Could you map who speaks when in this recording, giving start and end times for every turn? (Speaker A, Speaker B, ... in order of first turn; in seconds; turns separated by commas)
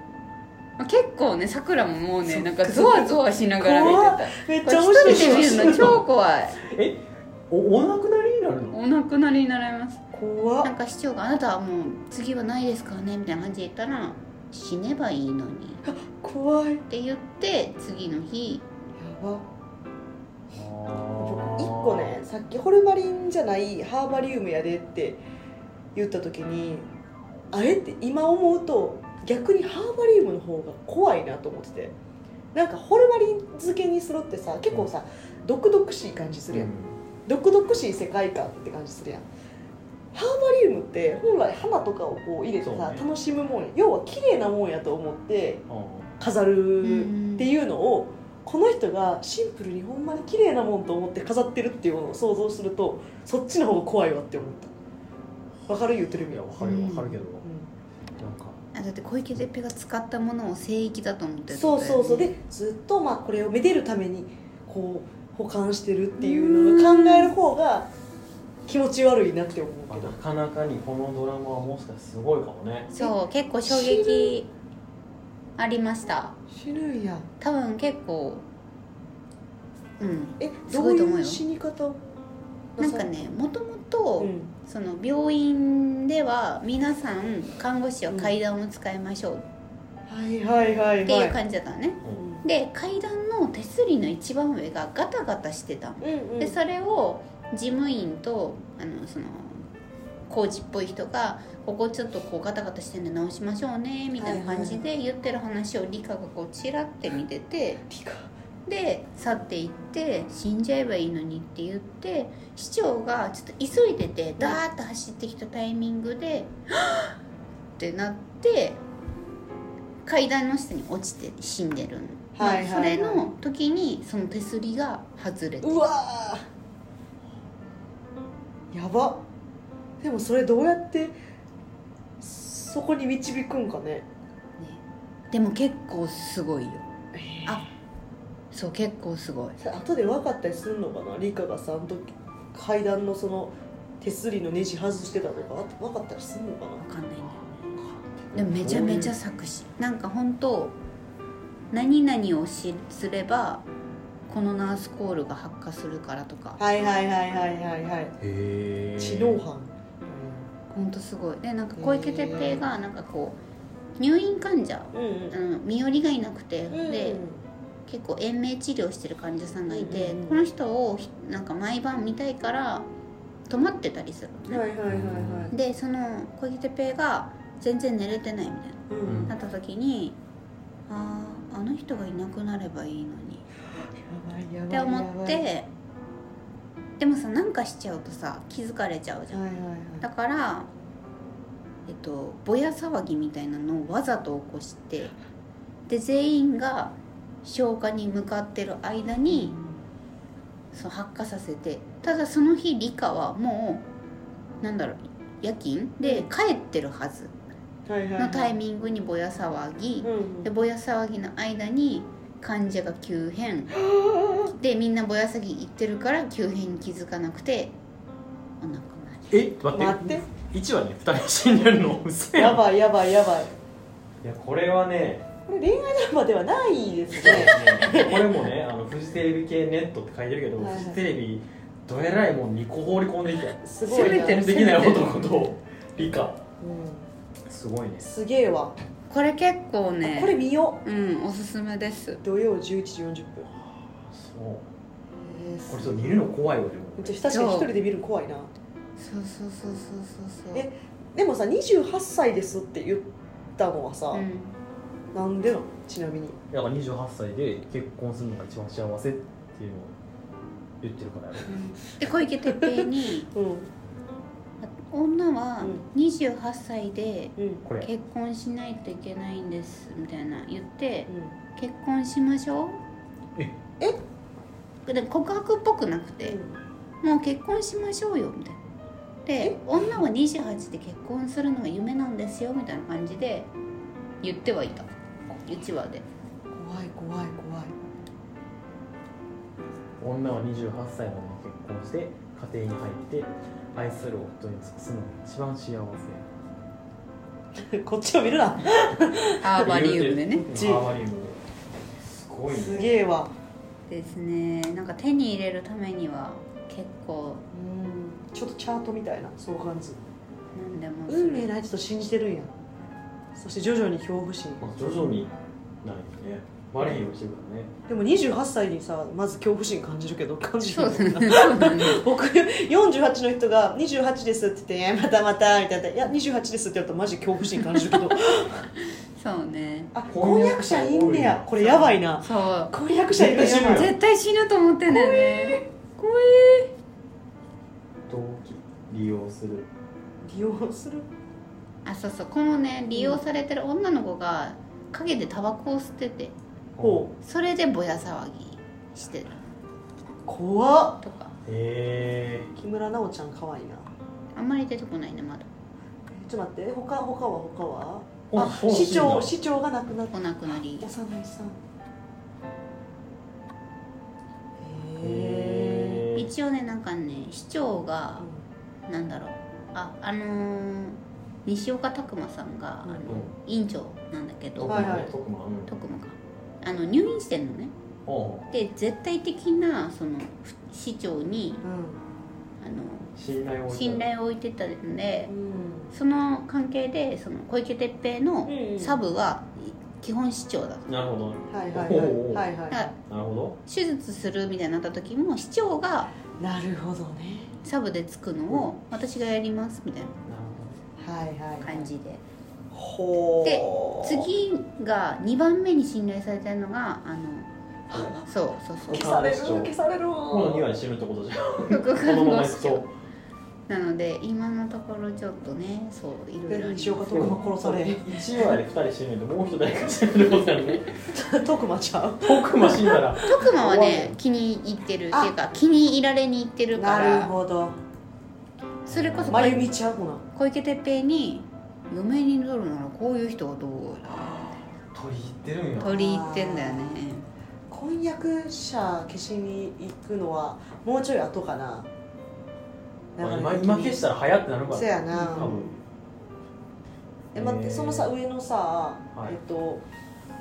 Speaker A: 0.8-6.6, Speaker B: 2.2-6.0, Speaker C: 5.0-6.0, Speaker C: 6.6-8.8, Speaker A: 8.7-10.0, Speaker B: 10.1-10.7, Speaker A: 10.6-15.8, Speaker B: 15.8-16.8, Speaker A: 16.9-18.6, Speaker B: 19.0-19.4, Speaker C: 20.5-22.1, Speaker B: 21.2-25.2, Speaker B: 25.9-26.9, Speaker B: 27.5-31.9, Speaker B: 32.5-36.7, Speaker C: 36.5-37.0, Speaker B: 37.2-39.2, Speaker B: 40.1-45.6, Speaker C: 42.6-43.0, Speaker C: 45.7-46.1, Speaker B: 46.2-54.7, Speaker A: 46.8-47.5, Speaker B: 55.7-57.7, Speaker C: 56.1-57.5, Speaker A: 56.6-57.1, Speaker C: 58.2-58.6, Speaker A: 58.7-62.3, Speaker B: 61.5-67.9, Speaker A: 66.2-67.3, Speaker B: 68.7-70.2, Speaker C: 69.9-72.9, Speaker A: 72.9-74.5, Speaker B: 73.6-74.3, Speaker A: 75.6-76.4, Speaker B: 76.5-77.3, Speaker A: 77.4-78.4, Speaker A: 80.0-81.4, Speaker B: 80.4-82.0, Speaker B: 82.8-83.1, Speaker A: 82.8-89.4, Speaker B: 84.2-84.5, Speaker B: 88.1-88.3, Speaker B: 90.1-91.4, Speaker A: 91.0-99.6, Speaker B: 92.2-92.4, Speaker B: 96.0-96.6, Speaker A: 100.3-107.8, Speaker B: 104.2-104.8, Speaker B: 107.9-108.3, Speaker A: 108.7-117.1, Speaker A: 117.8-118.8, Speaker A: 120.0-125.8, Speaker B: 122.3-123.3, Speaker B: 125.6-126.4, Speaker B: 128.7-129.2, Speaker B: 130.0-131.2, Speaker B: 132.2-134.1, Speaker A: 134.6-136.8, Speaker B: 137.1-137.7, Speaker A: 138.5-139.6, Speaker B: 139.6-146.8, Speaker A: 146.8-147.4, Speaker C: 147.2-149.1, Speaker A: 148.3-150.8, Speaker A: 151.7-153.6, Speaker A: 154.3-156.6, Speaker B: 156.6-158.1, Speaker C: 158.2-159.4, Speaker B: 159.0-160.4, Speaker A: 160.7-163.4, Speaker B: 161.8-162.7, Speaker A: 164.0-167.2, Speaker B: 164.9-165.4, Speaker B: 166.7-167.4, Speaker A: 167.9-172.9, Speaker B: 169.7-170.4, Speaker A: 173.5-174.7, Speaker B: 174.5-175.5, Speaker C: 174.9-175.5, Speaker A: 175.5-180.2, Speaker B: 178.9-179.3, Speaker C: 179.0-179.3, Speaker A: 180.9-183.4, Speaker B: 183.9-185.5, Speaker A: 184.7-185.7, Speaker A: 187.0-189.4, Speaker B: 189.3-190.1, Speaker A: 190.0-190.7, Speaker A: 191.9-195.1, Speaker A: 195.9-199.5, Speaker B: 199.3-199.8, Speaker A: 200.7-203.8, Speaker A: 204.6-207.3, Speaker B: 206.0-206.3, Speaker B: 207.9-208.6, Speaker A: 208.2-213.8, Speaker B: 210.0-210.5, Speaker B: 213.8-214.5, Speaker A: 214.4-217.7, Speaker A: 218.6-219.3, Speaker C: 219.3-222.7, Speaker B: 219.7-220.2, Speaker B: 222.3-223.5, Speaker C: 224.2-225.2, Speaker B: 225.4-228.3, Speaker C: 227.1-236.4, Speaker B: 230.6-231.0, Speaker B: 233.6-235.0, Speaker A: 233.8-235.1, Speaker B: 236.6-237.1, Speaker C: 237.5-238.1, Speaker B: 238.0-238.8, Speaker A: 239.1-242.2, Speaker B: 240.0-240.8, Speaker B: 242.2-243.5, Speaker C: 243.5-244.7, Speaker B: 245.2-246.2, Speaker C: 245.7-247.2, Speaker B: 247.0-248.5, Speaker A: 247.3-247.7, Speaker A: 249.0-250.7, Speaker B: 250.5-254.2, Speaker A: 254.1-254.6, Speaker B: 255.1-256.4, Speaker C: 256.5-259.9, Speaker C: 260.8-261.6, Speaker A: 261.5-263.3, Speaker B: 262.4-263.7, Speaker A: 264.6-272.8, Speaker B: 265.6-265.8, Speaker B: 267.4-267.6, Speaker C: 267.6-267.9, Speaker A: 274.9-276.4, Speaker B: 276.2-276.5, Speaker A: 277.0-278.6, Speaker A: 279.2-283.5, Speaker B: 279.4-280.0, Speaker A: 284.2-284.9, Speaker A: 285.4-286.0, Speaker B: 286.5-287.7, Speaker C: 290.0-296.2, Speaker B: 297.5-299.6, Speaker A: 299.4-300.5, Speaker C: 299.6-301.4, Speaker B: 300.5-300.9, Speaker C: 301.9-302.9, Speaker B: 302.5-303.3, Speaker A: 303.9-307.4, Speaker B: 307.5-310.0, Speaker A: 310.5-311.5, Speaker B: 311.1-312.5, Speaker B: 313.3-314.7, Speaker C: 314.6-315.3, Speaker C: 315.8-317.7, Speaker B: 317.9-328.7, Speaker A: 320.6-322.1, Speaker A: 327.7-328.0, Speaker A: 328.8-329.9, Speaker B: 329.9-333.9, Speaker C: 330.1-332.0, Speaker A: 332.2-332.7, Speaker C: 333.1-333.9, Speaker A: 333.5-336.7, Speaker B: 334.9-335.6, Speaker C: 338.1-339.7, Speaker B: 340.2-341.1, Speaker A: 341.8-346.3, Speaker B: 342.9-343.2, Speaker C: 346.8-347.1, Speaker B: 346.8-347.1, Speaker A: 347.2-349.4, Speaker B: 350.3-351.0, Speaker A: 351.0-351.3, Speaker C: 351.4-352.5, Speaker B: 352.6-353.9, Speaker A: 354.3-355.5, Speaker B: 356.1-361.6, Speaker C: 358.3-359.3, Speaker A: 360.1-360.9, Speaker B: 364.6-366.1, Speaker C: 365.0-366.2, Speaker A: 366.1-368.3, Speaker A: 368.9-375.1, Speaker B: 372.9-373.1, Speaker C: 373.0-373.3, Speaker C: 374.6-375.7, Speaker B: 374.7-375.1, Speaker A: 375.7-377.7, Speaker C: 378.1-378.6, Speaker A: 378.5-381.6, Speaker B: 381.6-382.0, Speaker A: 382.6-383.1, Speaker C: 383.1-384.1, Speaker A: 383.7-385.3, Speaker B: 385.3-385.9, Speaker A: 385.9-390.9, Speaker B: 388.4-389.0, Speaker C: 390.9-392.5, Speaker B: 391.5-392.9, Speaker C: 393.1-393.6, Speaker A: 393.6-396.1, Speaker B: 396.3-397.5, Speaker A: 397.6-400.1, Speaker C: 400.2-400.8, Speaker B: 401.0-401.9, Speaker A: 401.6-402.2, Speaker B: 402.7-404.3, Speaker A: 403.4-409.1, Speaker B: 408.9-410.7, Speaker C: 408.9-409.7, Speaker C: 410.3-412.9, Speaker A: 411.7-412.9, Speaker A: 413.7-417.4, Speaker B: 416.5-418.0, Speaker C: 417.1-421.1, Speaker B: 421.0-424.1, Speaker C: 422.2-423.4, Speaker A: 423.2-427.3, Speaker B: 426.7-427.8, Speaker A: 428.9-429.7, Speaker C: 428.9-429.6, Speaker B: 429.3-430.2, Speaker A: 430.3-434.5, Speaker C: 434.8-435.9, Speaker B: 435.8-437.0, Speaker A: 435.8-437.2, Speaker B: 437.7-441.9, Speaker B: 443.1-444.1, Speaker C: 443.2-445.8, Speaker B: 444.7-445.8, Speaker A: 445.1-445.6, Speaker C: 447.3-448.1, Speaker B: 447.3-449.8